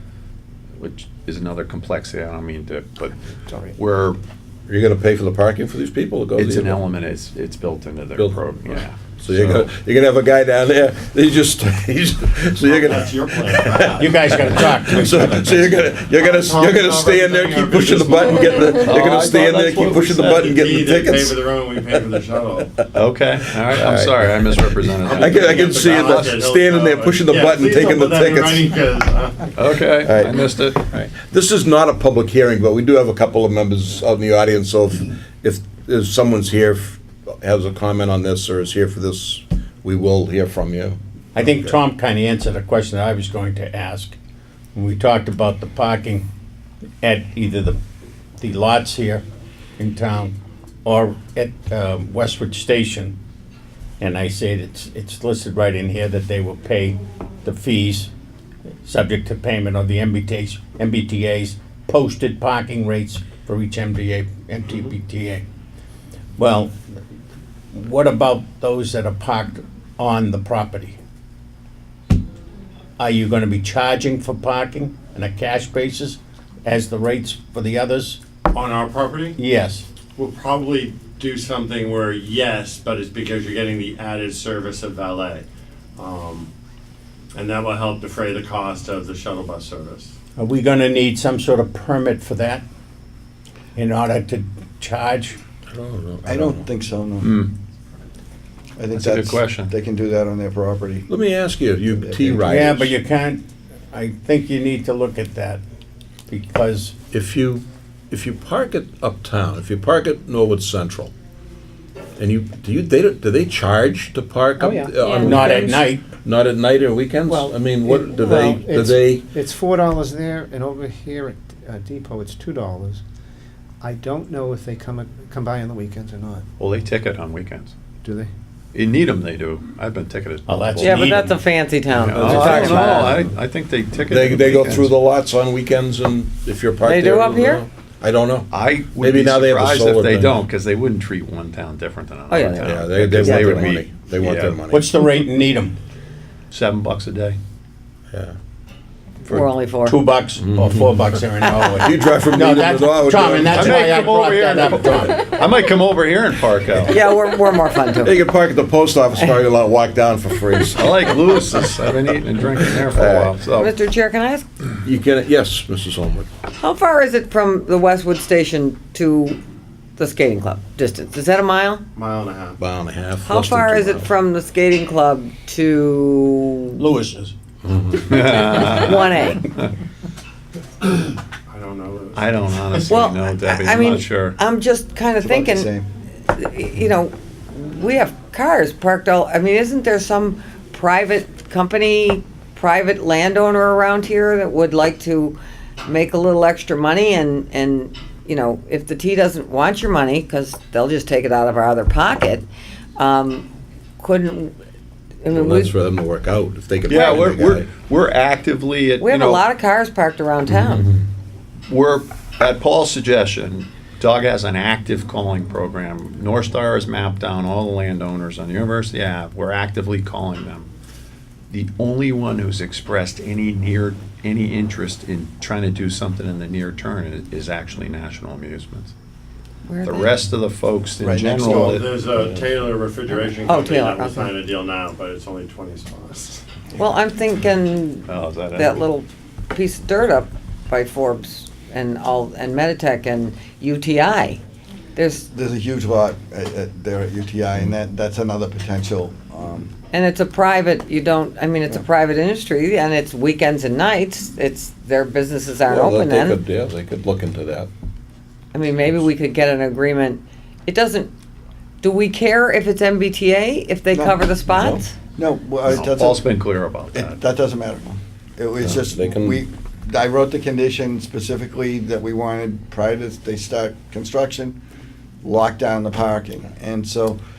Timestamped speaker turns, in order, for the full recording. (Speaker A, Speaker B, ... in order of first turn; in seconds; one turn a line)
Speaker A: 0.8-3.2
Speaker B: 3.4-3.8
Speaker A: 3.8-4.2
Speaker C: 4.7-6.8
Speaker A: 6.3-9.7
Speaker C: 8.2-8.5
Speaker C: 9.2-22.9
Speaker D: 12.6-19.1
Speaker E: 13.9-15.4
Speaker A: 18.6-20.5
Speaker D: 20.2-22.7
Speaker A: 22.9-26.5
Speaker C: 23.4-28.8
Speaker D: 25.0-29.8
Speaker A: 29.5-31.1
Speaker C: 30.0-41.7
Speaker E: 41.3-44.1
Speaker E: 44.7-46.3
Speaker E: 47.0-47.8
Speaker E: 48.4-49.2
Speaker E: 49.8-53.1
Speaker E: 54.0-58.1
Speaker E: 58.8-65.4
Speaker E: 66.4-66.7
Speaker E: 67.7-71.0
Speaker E: 73.0-78.2
Speaker D: 78.5-79.4
Speaker E: 79.4-79.9
Speaker D: 80.2-85.4
Speaker D: 86.0-86.5
Speaker D: 87.3-90.1
Speaker E: 90.4-92.6
Speaker E: 93.7-95.4
Speaker C: 95.7-96.6
Speaker F: 96.2-97.3
Speaker A: 97.2-97.5
Speaker F: 98.8-101.1
Speaker A: 98.9-99.7
Speaker C: 101.1-102.9
Speaker F: 101.9-102.5
Speaker E: 102.5-105.6
Speaker E: 106.3-106.9
Speaker C: 107.1-111.1
Speaker C: 112.2-119.2
Speaker B: 114.6-115.6
Speaker E: 115.2-116.1
Speaker G: 117.3-117.5
Speaker B: 117.8-123.0
Speaker B: 123.8-126.4
Speaker A: 126.6-127.7
Speaker B: 128.0-128.3
Speaker A: 128.7-131.2
Speaker E: 130.5-131.4
Speaker G: 130.8-133.2
Speaker A: 131.9-134.9
Speaker C: 132.1-133.0
Speaker E: 132.2-133.3
Speaker C: 134.1-140.4
Speaker G: 136.8-137.7
Speaker A: 138.5-144.6
Speaker G: 142.3-143.7
Speaker C: 142.6-145.0
Speaker E: 144.7-145.8
Speaker A: 146.5-147.4
Speaker G: 149.2-149.9
Speaker E: 149.8-155.2
Speaker C: 150.4-151.2
Speaker C: 151.8-153.8
Speaker A: 153.5-157.0
Speaker G: 156.9-158.2
Speaker C: 158.0-161.5
Speaker A: 160.7-163.7
Speaker C: 162.9-163.4
Speaker G: 163.5-164.4
Speaker C: 164.8-166.3
Speaker G: 166.6-169.4
Speaker G: 170.0-171.8
Speaker D: 171.9-172.6
Speaker C: 172.6-174.1
Speaker G: 173.2-176.8
Speaker E: 176.7-177.3
Speaker C: 177.6-178.7
Speaker A: 178.0-179.0
Speaker G: 178.5-179.5
Speaker D: 180.8-182.9
Speaker A: 182.1-184.4
Speaker G: 182.9-185.7
Speaker F: 185.2-185.9
Speaker G: 186.3-203.5
Speaker G: 204.0-204.5
Speaker G: 205.2-205.7
Speaker C: 205.3-207.7
Speaker A: 206.8-209.4
Speaker G: 206.9-207.2
Speaker G: 209.0-210.9
Speaker C: 210.5-211.0
Speaker A: 211.7-220.7
Speaker A: 221.5-228.9
Speaker G: 229.7-230.2
Speaker A: 229.8-232.1
Speaker F: 231.0-231.8
Speaker D: 231.7-236.4
Speaker C: 232.2-232.5
Speaker G: 233.4-234.3
Speaker G: 236.8-244.4
Speaker A: 238.1-238.8
Speaker G: 244.9-245.3
Speaker F: 245.3-249.7
Speaker G: 249.9-256.4
Speaker C: 255.7-257.7
Speaker G: 258.5-261.1
Speaker G: 261.8-265.0
Speaker F: 263.9-264.3
Speaker C: 264.5-264.9
Speaker F: 265.0-266.3
Speaker A: 265.7-267.2
Speaker F: 266.9-274.6
Speaker C: 268.6-269.4
Speaker F: 275.2-277.2